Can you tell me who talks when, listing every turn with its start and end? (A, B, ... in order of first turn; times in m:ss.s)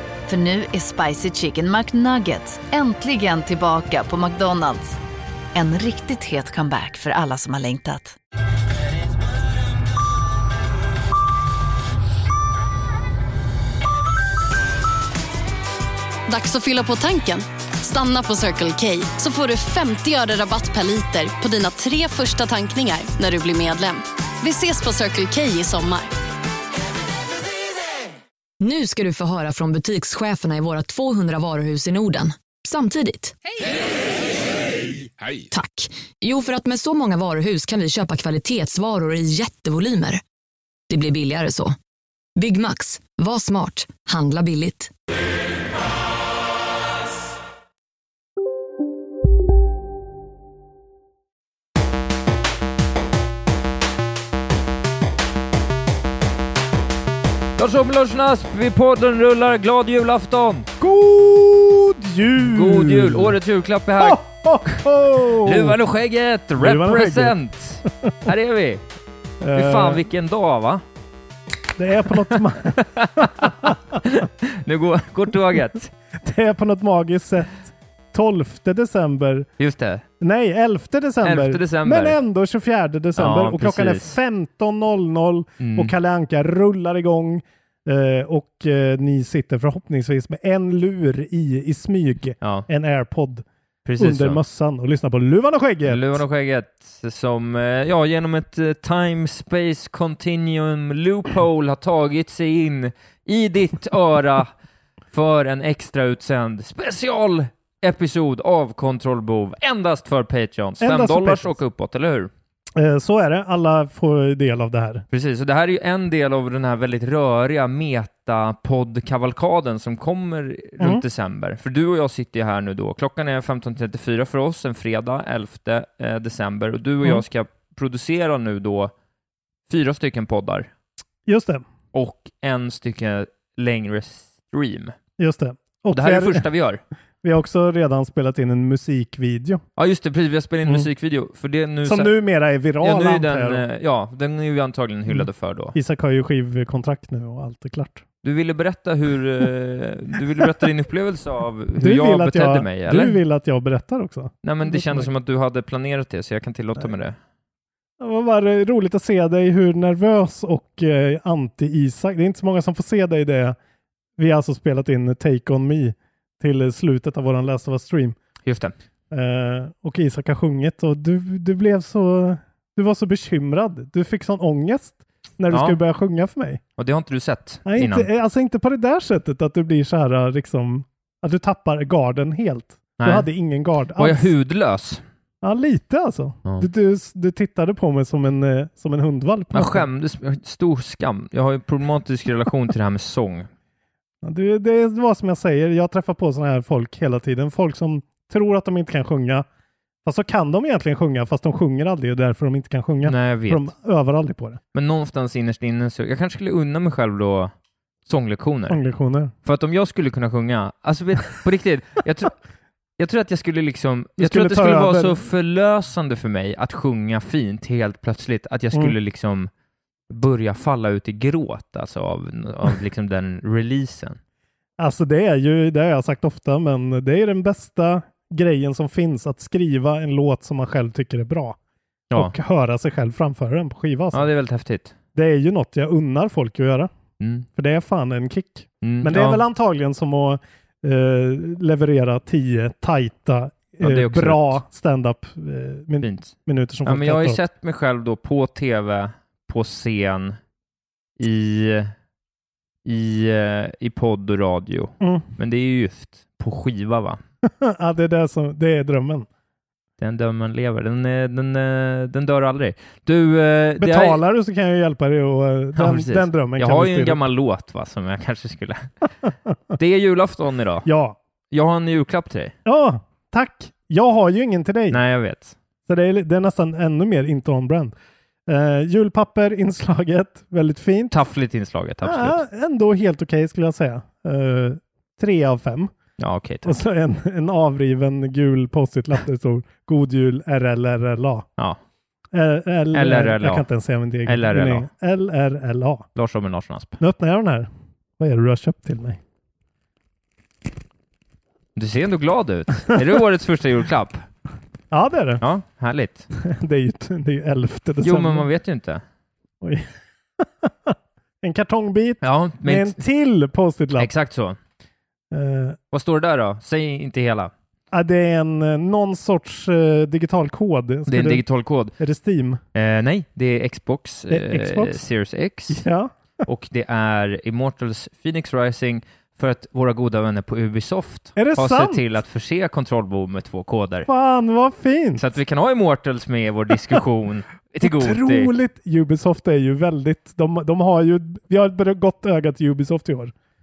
0:00.3-0:05.0 A
0:05.5-0:08.2 A
0:16.3-0:26.1 B
0:28.6-0:33.4 C
0:35.5-0:40.2 C
0:40.9-0:41.7 C
0:42.4-0:44.9 C
0:57.6-1:00.7 D
1:00.8-1:03.4 E
1:02.4-1:04.8 D
1:04.0-1:05.8 E
1:05.4-1:08.8 D
1:06.6-1:08.3 E
1:09.4-1:10.0 E
1:09.5-1:10.8 D
1:11.7-1:13.8 E
1:12.8-1:15.9 D
1:16.2-1:19.5 E
1:19.6-1:20.0 D
1:20.2-1:33.4 E
1:21.2-1:22.2 D
1:23.2-1:24.1 D
1:25.6-1:25.9 D
1:32.4-1:32.7 D
1:33.8-1:34.4 D
1:34.0-1:36.2 E
1:35.9-1:44.5 D
1:45.1-1:52.3 D
1:50.8-1:51.6 E
1:52.7-1:55.0 E
1:55.1-2:08.9 D
2:00.8-2:01.0 E
2:09.7-2:10.7 D
2:11.2-2:11.6 E
2:11.9-2:14.9 D
2:15.2-2:16.4 E
2:15.9-2:16.8 D
2:17.2-2:19.6 E
2:19.8-2:22.1 D
2:21.8-2:23.6 E
2:22.8-2:25.7 D
2:25.1-2:28.0 E
2:28.2-2:33.2 D
2:31.8-2:35.1 E
2:34.4-2:37.2 D
2:38.0-2:43.6 E
2:44.2-2:48.2 E
2:48.4-2:48.7 D
2:49.1-2:56.6 E
2:55.5-2:55.8 D
2:56.8-2:58.1 D
2:57.6-3:04.3 E
3:03.0-3:03.3 D
3:04.0-3:05.0 D
3:05.4-3:09.8 E
3:09.5-3:13.5 D
3:14.2-3:19.4 E
3:20.0-3:24.6 E
3:23.0-3:23.7 D
3:24.7-3:27.5 D
3:28.0-3:28.8 D
3:28.7-3:29.3 E
3:29.4-3:32.3 D
3:33.0-3:39.5 D
3:34.2-3:35.2 E
3:40.1-3:44.2 D
3:44.8-3:51.6 E
3:52.1-3:54.3 E
3:54.1-3:54.9 D
3:55.1-3:56.9 E
3:57.2-3:57.4 D
3:57.6-4:07.4 E
3:58.8-3:59.4 D
4:03.8-4:04.6 D
4:06.0-4:06.3 D
4:06.8-4:10.4 D
4:11.2-4:11.9 D
4:12.8-4:17.2 D
4:15.0-4:15.3 E
4:17.4-4:19.3 E
4:20.0-4:24.2 D
4:23.8-4:27.2 E
4:25.8-4:28.9 D
4:29.8-4:30.9 D
4:30.8-4:31.2 E
4:31.5-4:32.5 D
4:32.6-4:35.0 E
4:34.9-4:35.6 D
4:35.9-4:37.9 E
4:38.5-4:41.2 E
4:41.1-4:42.4 D
4:42.0-4:45.9 E
4:46.2-4:46.8 D
4:46.6-4:51.5 E
4:52.3-4:56.1 E
4:52.9-4:53.7 D
4:54.2-4:54.9 D
4:56.2-4:57.0 D
4:57.0-4:59.2 E
5:01.8-5:04.2 D
5:04.9-5:05.4 E
5:05.4-5:06.3 D
5:06.3-5:08.4 E
5:08.0-5:09.0 D
5:09.6-5:14.1 E
5:12.2-5:13.0 D
5:14.0-5:14.6 D
5:15.3-5:15.8 E
5:15.9-5:17.5 D
5:17.9-5:21.4 E
5:21.1-5:21.9 D
5:22.0-5:22.6 E
5:22.7-5:25.8 D
5:24.3-5:25.0 E
5:25.7-5:26.1 E
5:26.4-5:34.1 D
5:31.4-5:32.0 E
5:34.0-5:35.2 E
5:35.2-5:38.5 D
5:37.8-5:43.3 E